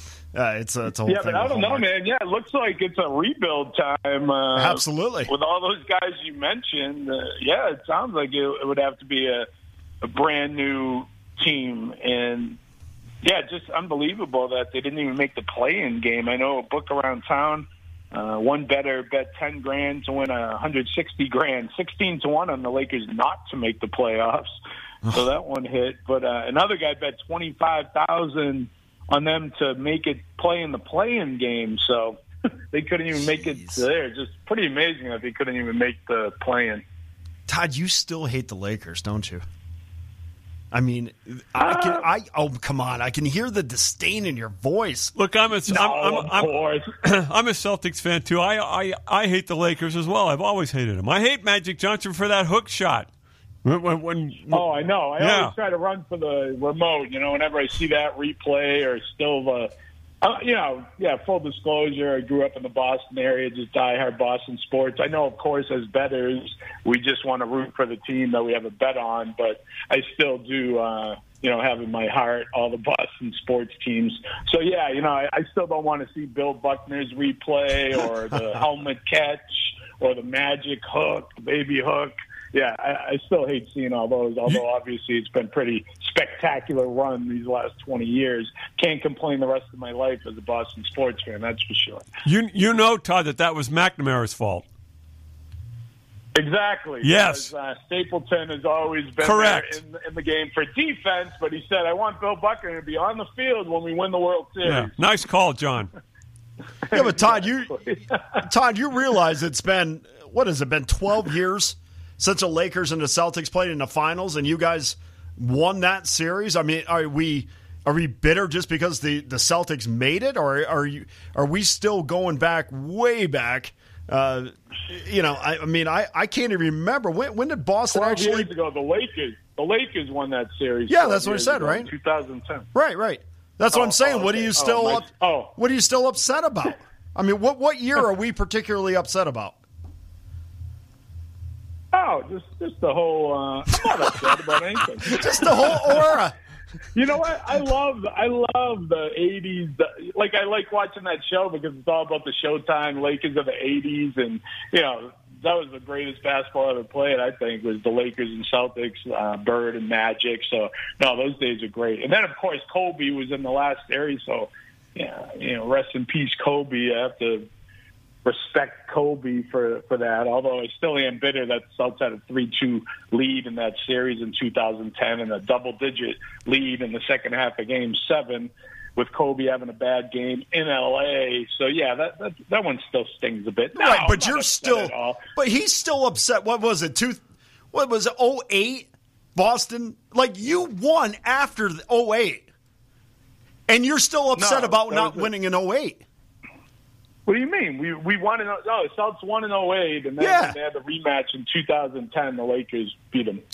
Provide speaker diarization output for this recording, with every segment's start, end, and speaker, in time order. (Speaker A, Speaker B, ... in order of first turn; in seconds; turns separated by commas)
Speaker A: 0.3-1.9, Speaker B: 1.1-9.5, Speaker A: 4.5-5.3, Speaker B: 10.0-12.6, Speaker B: 13.2-24.5, Speaker B: 25.1-32.2, Speaker B: 32.7-36.8, Speaker A: 33.1-33.8, Speaker A: 37.5-39.4, Speaker A: 40.7-45.1, Speaker B: 41.6-42.0, Speaker C: 45.1-53.1, Speaker B: 45.6-46.9, Speaker C: 53.6-54.6, Speaker B: 54.5-59.7, Speaker C: 55.2-55.5, Speaker B: 60.2-92.0, Speaker C: 92.2-94.6, Speaker B: 96.3-104.9, Speaker C: 97.0-97.5, Speaker C: 99.2-99.8, Speaker C: 104.6-105.9, Speaker B: 106.9-108.4, Speaker A: 106.9-128.5, Speaker B: 127.9-132.7, Speaker A: 130.9-131.9, Speaker A: 132.7-139.6, Speaker B: 133.7-135.5, Speaker B: 141.9-146.2, Speaker A: 145.1-146.3, Speaker B: 146.9-167.5, Speaker B: 168.2-185.2, Speaker A: 183.8-192.5, Speaker A: 193.7-196.0, Speaker B: 194.4-195.3, Speaker B: 197.3-203.4, Speaker A: 200.2-200.6